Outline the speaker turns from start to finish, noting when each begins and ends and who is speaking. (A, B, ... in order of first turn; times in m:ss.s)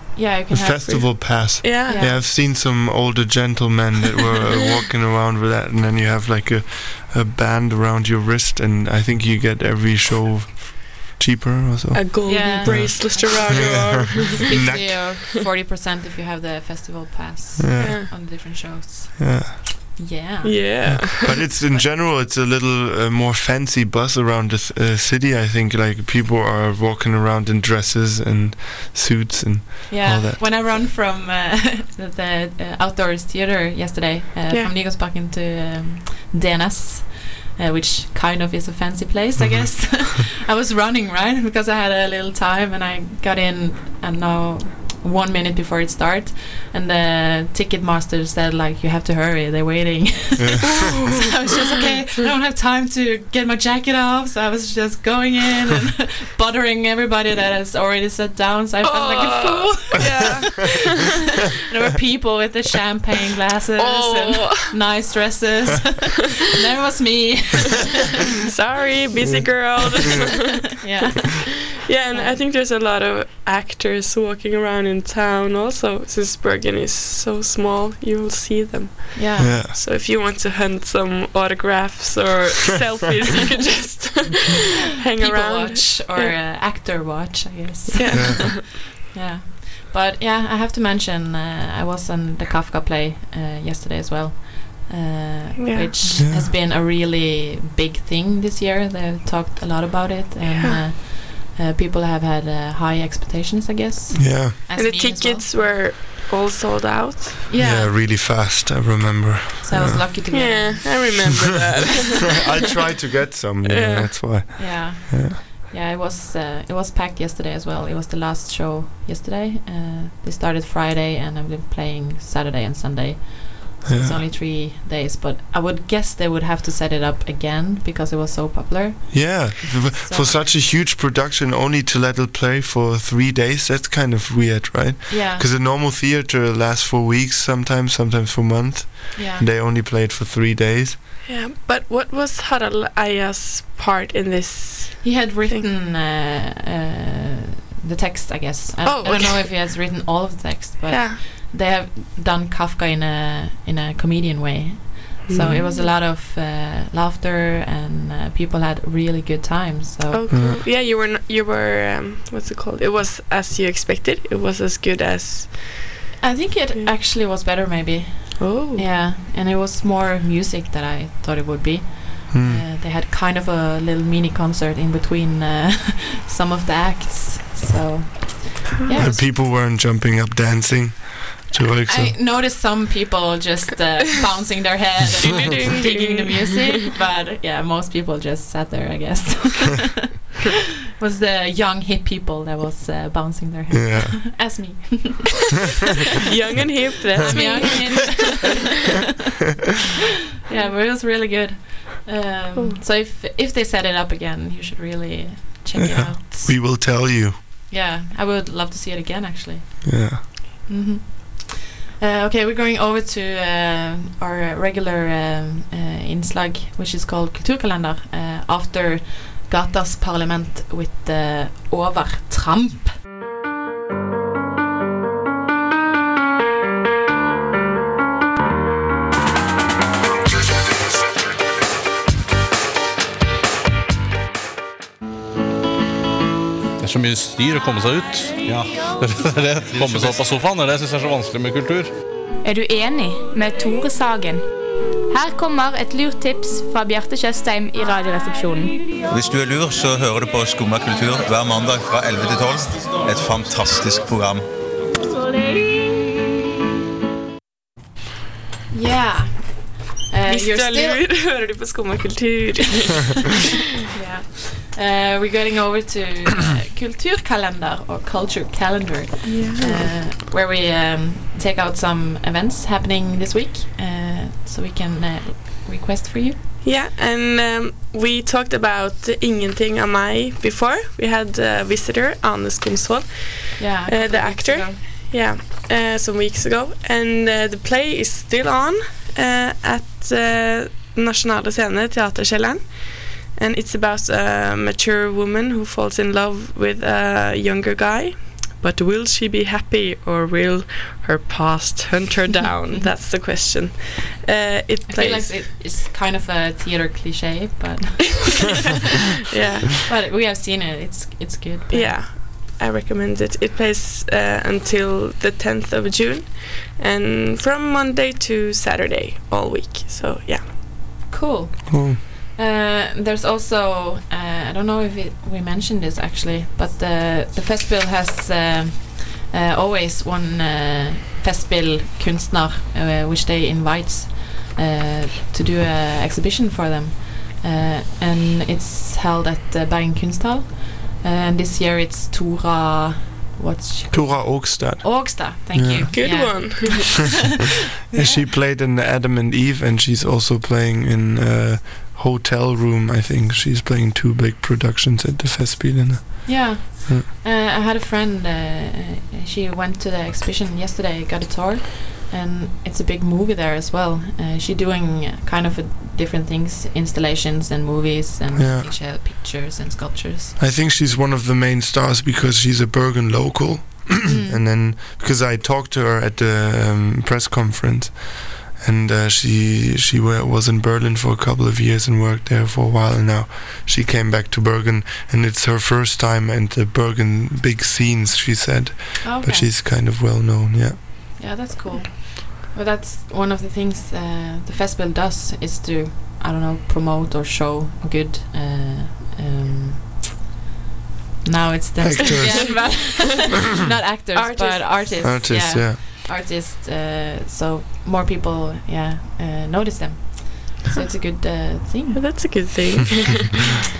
0:00.1-0:02.3 A
0:00.5-0:15.3 B
0:01.6-0:02.0 C
0:11.9-0:14.9 C
0:12.2-0:21.0 A
0:17.6-0:18.1 B
0:17.8-0:18.1 C
0:19.2-0:20.0 B
0:20.4-0:21.3 C
0:20.8-0:30.4 B
0:29.9-1:00.7 A
0:39.4-0:39.6 B
0:50.7-0:51.2 C
0:58.8-1:01.0 C
1:01.6-1:08.0 A
1:03.8-1:04.7 C
1:08.5-1:10.8 C
1:09.2-1:09.7 B
1:10.8-1:12.4 A
1:11.3-1:26.3 C
1:19.1-1:19.5 A
1:19.4-1:19.7 B
1:25.2-1:45.7 A
1:27.9-1:28.6 C
1:28.1-1:28.4 B
1:35.6-1:36.2 C
1:36.2-1:36.5 B
1:40.4-1:40.8 C
1:44.1-1:44.6 B
1:44.7-1:47.4 C
1:47.5-1:47.9 A
1:47.6-1:50.0 B
1:49.6-1:51.1 A
1:50.3-1:52.4 C
1:52.4-1:55.4 B
1:53.6-1:54.2 C
1:54.5-2:10.4 A
2:03.8-2:04.2 B
2:09.1-2:21.0 B
2:15.1-2:15.4 A
2:19.1-2:19.4 A
2:21.2-2:25.6 C
2:25.0-2:40.4 A
2:28.8-2:29.5 C
2:30.9-2:31.2 C
2:35.3-2:35.9 C
2:40.1-2:46.0 C
2:40.3-2:40.6 B
2:46.2-2:59.2 A
2:48.4-2:48.8 C
2:52.3-2:52.6 B
2:58.9-3:02.2 B
3:01.6-3:10.1 A
3:05.2-3:06.6 C
3:11.0-3:15.6 A
3:13.7-3:14.2 B
3:16.2-3:18.5 C
3:17.2-3:18.9 A
3:20.5-3:26.6 A
3:25.8-3:27.4 B
3:27.7-3:43.0 A
3:29.8-3:30.2 B
3:56.8-4:01.9 D
3:59.7-4:00.2 E
4:02.4-4:04.5 F
4:05.1-4:08.8 F
4:09.1-4:14.5 E
4:18.7-4:21.0 A
4:20.2-4:23.3 C
4:23.9-4:36.4 A
4:29.2-4:29.9 C
4:36.6-5:05.4 C
4:43.6-4:44.8 A
5:04.9-5:08.7 A
5:09.3-5:09.8 C
5:09.8-5:12.0 A
5:11.7-5:20.4 C
5:21.1-5:47.2 A
5:21.7-5:22.0 B
5:43.9-5:46.4 B
5:45.9-5:47.0 C
5:47.8-5:48.3 A
5:47.9-5:57.1 B
5:56.2-6:10.4 A
6:08.3-6:08.7 B
6:10.4-6:31.1 B
6:14.0-6:14.4 A
6:29.0-6:29.5 A
6:31.2-6:40.2 A
6:41.2-6:52.5 A
6:41.8-6:42.8 B
6:42.1-6:42.6 C
6:44.1-6:45.1 C
6:45.0-6:45.8 B
6:51.9-6:53.5 C